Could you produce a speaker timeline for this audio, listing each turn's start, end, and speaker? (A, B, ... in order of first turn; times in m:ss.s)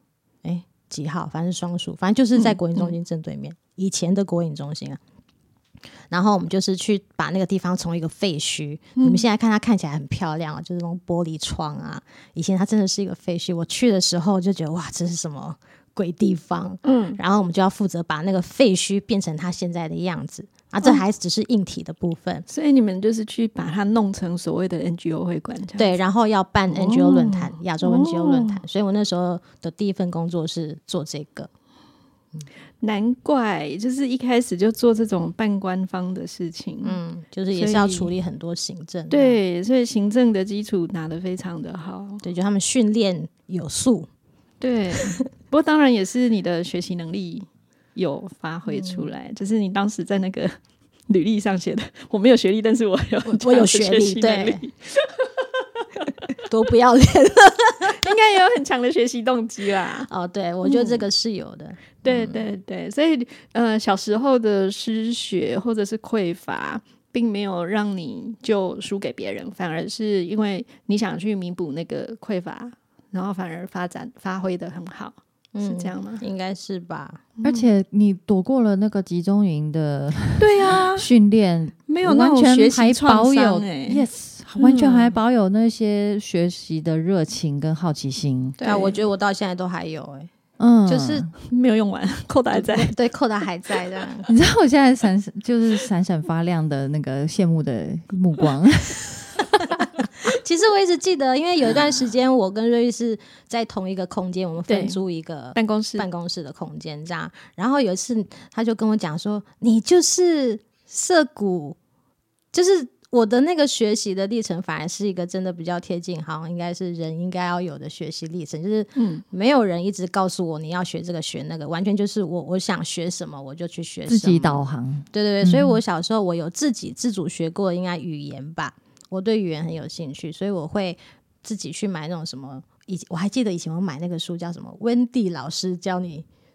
0:00.4-0:05.0 A
0:02.4-0:03.0 B
0:06.1-0:22.4 A
0:09.0-0:09.2 B
0:16.8-0:17.2 B
0:22.5-0:26.0 B
0:25.8-0:31.5 A
0:26.7-0:28.6 B
0:32.8-0:37.0 B
0:36.8-0:39.4 A
0:37.5-0:38.1 B
0:39.1-0:42.2 B
0:42.2-0:44.1 A
0:44.6-0:50.5 B
0:48.7-0:49.1 A
0:51.1-0:55.4 B
0:53.2-0:54.6 A
0:56.4-0:58.1 A
0:57.8-1:00.1 B
1:00.1-1:02.4 A
1:00.6-1:01.0 B
1:02.0-1:16.2 B
1:15.5-1:17.2 A
1:17.4-1:17.7 B
1:17.4-1:28.6 C
1:20.4-1:21.1 B
1:21.9-1:24.0 B
1:24.6-1:25.2 B
1:28.6-1:29.0 B
1:28.6-1:30.3 A
1:30.6-1:31.3 C
1:30.8-1:31.3 A
1:31.4-1:32.9 B
1:32.5-1:34.3 A
1:34.3-1:39.4 C
1:40.2-1:51.8 A
1:44.7-1:45.0 B
1:45.5-1:46.0 B
1:52.5-2:04.6 A
1:59.0-1:59.2 B
2:04.1-2:05.8 C
2:05.1-2:16.2 A